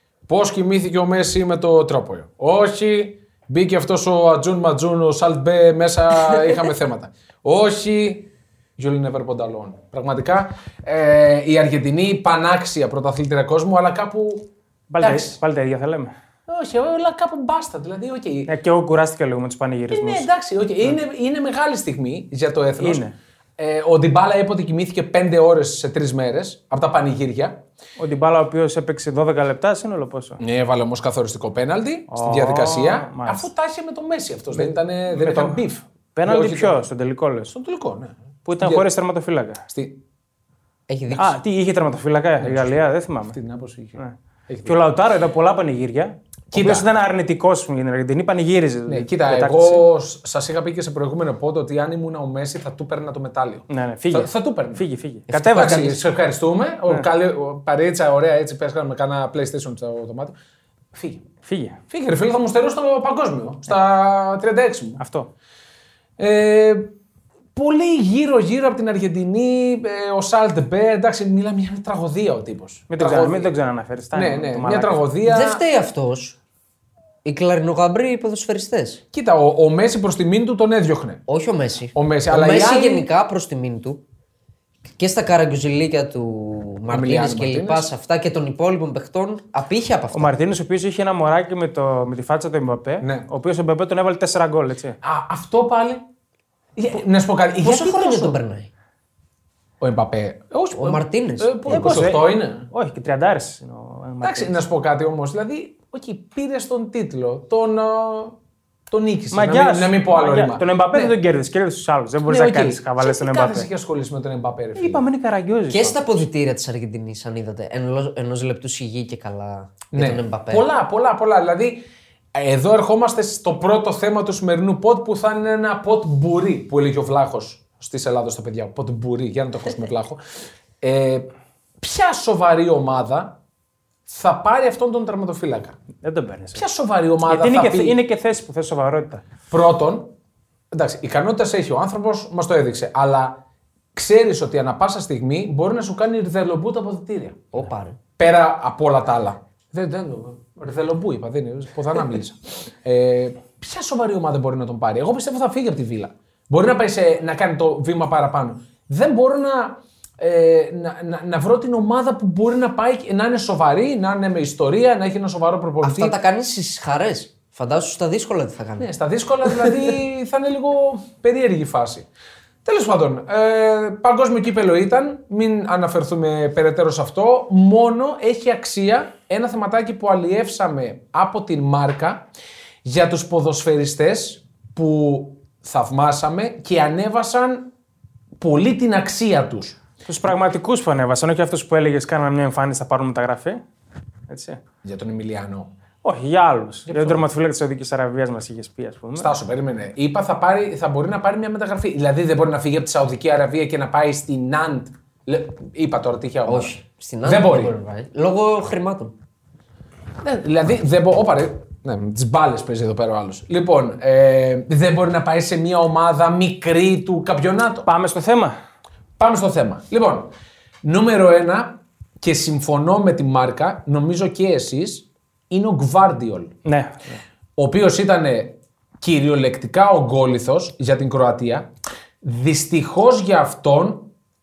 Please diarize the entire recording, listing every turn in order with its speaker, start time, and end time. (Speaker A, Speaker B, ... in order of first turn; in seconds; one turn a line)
Speaker A: 0.3-14.5
Speaker B: 14.9-16.1
Speaker A: 15.0-15.4
Speaker A: 16.5-18.5
Speaker B: 18.5-20.3
Speaker A: 19.9-23.0
Speaker B: 22.8-23.1
Speaker A: 23.6-27.6
Speaker B: 28.0-30.4
Speaker A: 30.4-36.8
Speaker B: 32.1-33.5
Speaker B: 34.5-35.6
Speaker B: 36.1-37.5
Speaker A: 37.5-38.9
Speaker B: 38.5-39.6
Speaker A: 39.7-40.0
Speaker C: 40.9-41.4
Speaker B: 41.1-43.4
Speaker A: 42.4-42.7
Speaker A: 43.2-44.8
Speaker B: 44.0-49.8
Speaker A: 46.5-46.9
Speaker A: 48.9-60.4
Speaker B: 53.7-56.0
Speaker C: 55.4-56.0
Speaker A: 60.9-61.2
Speaker B: 61.4-61.8
Speaker A: 61.9-65.0
Speaker B: 65.0-65.3
Speaker A: 66.2-66.9
Speaker A: 67.5-73.5
Speaker B: 72.9-75.0
Speaker A: 74.1-75.6
Speaker C: 75.2-76.4
Speaker C: 77.2-79.0
Speaker A: 79.1-81.2
Speaker C: 81.3-84.0
Speaker A: 81.9-83.1
Speaker C: 84.9-90.3
Speaker A: 86.9-87.9
Speaker B: 90.1-95.0
Speaker A: 93.0-93.2
Speaker A: 95.0-96.0
Speaker A: 96.8-98.4
Speaker C: 97.6-98.7
Speaker A: 99.8-102.7
Speaker C: 100.8-101.8
Speaker B: 101.7-104.6
Speaker A: 104.2-108.4
Speaker A: 108.9-111.1
Speaker B: 109.3-113.7
Speaker A: 112.3-115.0
Speaker B: 114.8-116.1
Speaker C: 115.7-120.7
Speaker A: 119.9-121.8
Speaker A: 122.3-130.2
Speaker A: 130.8-131.3
Speaker A: 131.8-133.4
Speaker A: 134.1-135.8
Speaker B: 136.0-136.6
Speaker A: 136.5-138.0
Speaker B: 137.3-139.2
Speaker A: 139.5-140.1
Speaker A: 140.7-143.4
Speaker A: 143.9-147.6
Speaker C: 147.5-148.0
Speaker A: 148.2-166.1
Speaker C: 165.8-168.9
Speaker A: 168.8-172.1
Speaker A: 172.6-182.3
Speaker A: 182.8-187.7
Speaker A: 188.4-189.8
Speaker B: 190.0-193.6
Speaker B: 194.3-194.6
Speaker A: 194.8-195.7
Speaker B: 196.0-199.3
Speaker A: 196.9-197.2
Speaker A: 199.2-207.7
Speaker C: 206.4-209.1
Speaker A: 210.2-217.9
Speaker B: 217.8-218.5
Speaker A: 219.2-220.3
Speaker A: 220.8-226.5
Speaker B: 226.6-227.2
Speaker A: 227.6-231.7
Speaker A: 232.2-234.1